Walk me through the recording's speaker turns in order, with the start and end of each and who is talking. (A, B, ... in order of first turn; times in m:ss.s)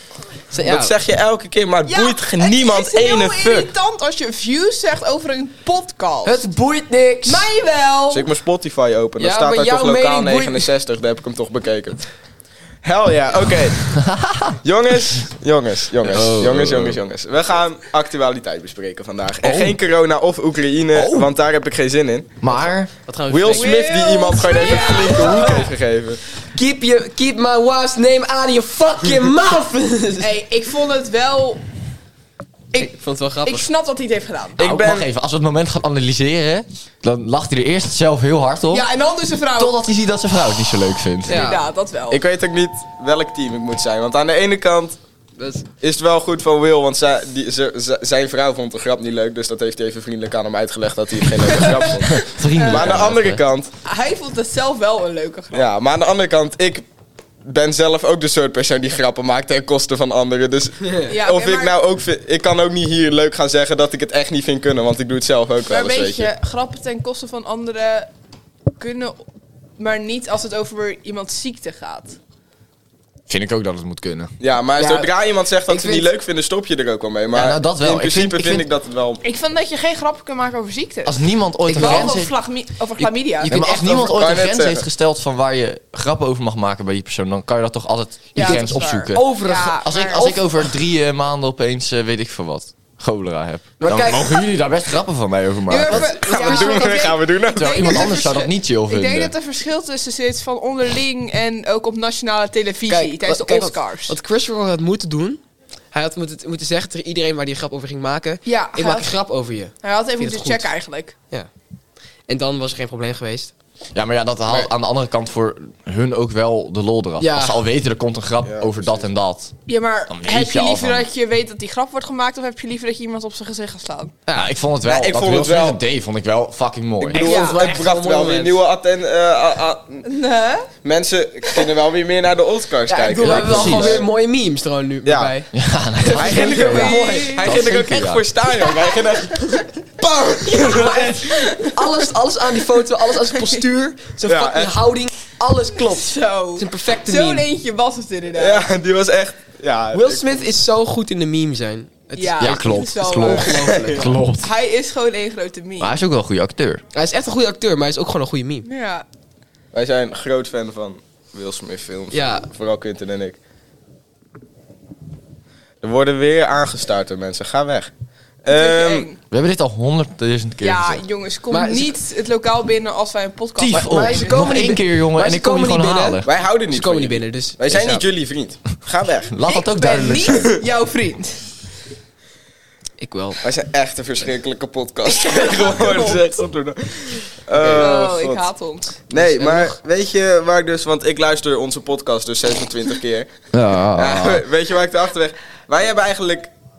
0:00.5-0:00.9 A
0:00.6-0:03.7 B
0:01.9-0:06.4 C
0:06.2-0:07.5 A
0:07.2-0:08.2 C
0:08.1-0:12.0 B
0:09.2-0:10.7 A
0:12.8-0:14.0 B
0:13.9-0:14.6 D
0:14.6-0:22.3 B
0:16.0-0:17.0 D
0:19.4-0:19.8 D
0:20.9-0:21.3 D
0:22.4-0:22.9 D
0:22.5-0:23.8 A
0:23.3-0:26.2 B
0:23.5-0:25.7 C
0:24.5-0:25.7 A
0:26.5-0:30.3 A
0:30.2-0:31.6 C
0:32.7-0:33.6 A
0:33.4-0:34.6 C
0:34.6-0:38.9 D
0:34.6-0:35.1 B
0:38.7-0:39.7 C
0:39.5-0:41.5 D
0:41.3-0:41.6 A
0:41.3-0:42.2 C
0:42.1-0:45.0 B
0:45.4-0:45.6 A
0:45.8-0:53.7 B
0:51.5-0:52.9 C
0:51.9-0:53.4 D
0:53.8-0:55.7 C
0:55.5-0:56.8 B
0:57.4-1:06.3 B
1:01.1-1:01.7 C
1:05.7-1:08.1 C
1:08.8-1:09.2 C
1:09.8-1:12.2 C
1:13.3-1:14.3 D
1:14.4-1:19.2 B
1:14.8-1:15.1 A
1:15.7-1:16.1 A
1:17.3-1:18.7 D
1:19.2-1:23.5 C
1:21.0-1:22.4 D
1:21.6-1:22.2 A
1:23.0-1:36.2 D
1:23.4-1:24.0 A
1:23.5-1:24.8 B
1:28.3-1:30.3 C
1:28.4-1:28.6 A
1:29.1-1:30.6 A
1:33.8-1:34.5 A
1:35.7-1:44.2 C
1:35.9-1:37.0 A
1:36.2-1:38.1 B
1:37.5-1:39.3 D
1:42.9-1:50.7 A
1:48.4-1:49.1 C
1:49.8-1:51.1 C
1:52.3-1:53.5 A
1:53.9-1:59.5 D
1:57.2-1:57.6 A
1:58.4-1:59.0 B
1:59.7-2:04.1 C
2:00.1-2:01.1 D
2:04.2-2:04.5 A
2:04.3-2:07.2 D
2:04.8-2:05.8 B
2:07.0-2:10.0 B
2:07.1-2:08.6 A
2:07.2-2:07.6 C
2:10.0-2:10.7 C
2:10.8-2:14.1 B
2:12.9-2:15.5 A
2:13.2-2:14.0 D
2:15.0-2:15.3 B
2:15.5-2:18.2 D
2:16.0-2:17.4 A
2:16.1-2:21.3 B
2:16.7-2:17.6 C
2:20.6-2:27.5 A
2:20.6-2:21.8 C
2:24.2-2:24.8 B
2:25.8-2:28.6 C
2:28.3-2:30.2 B
2:29.9-2:34.2 A
2:32.2-2:33.7 C
2:32.4-2:34.5 D
2:34.3-2:36.0 C
2:35.8-2:36.8 D
2:36.9-2:38.6 A
2:38.6-2:39.0 C
2:39.7-2:43.4 B
2:42.1-2:42.5 A
2:45.8-2:47.9 B
2:48.4-2:49.1 B
2:48.5-2:49.2 C
2:49.3-2:51.0 D
2:50.6-2:54.5 C
2:51.5-2:52.0 A
2:53.6-2:56.3 D
2:53.7-2:58.0 A
2:56.2-2:59.3 B
2:59.3-3:00.6 D
2:59.4-3:01.4 C
3:03.0-3:03.4 A
3:03.4-3:08.5 B
3:05.2-3:06.2 C
3:07.5-3:07.9 A
3:07.8-3:09.0 C
3:09.1-3:13.3 B
3:09.1-3:09.8 A
3:13.5-3:14.4 D
3:13.9-3:16.5 B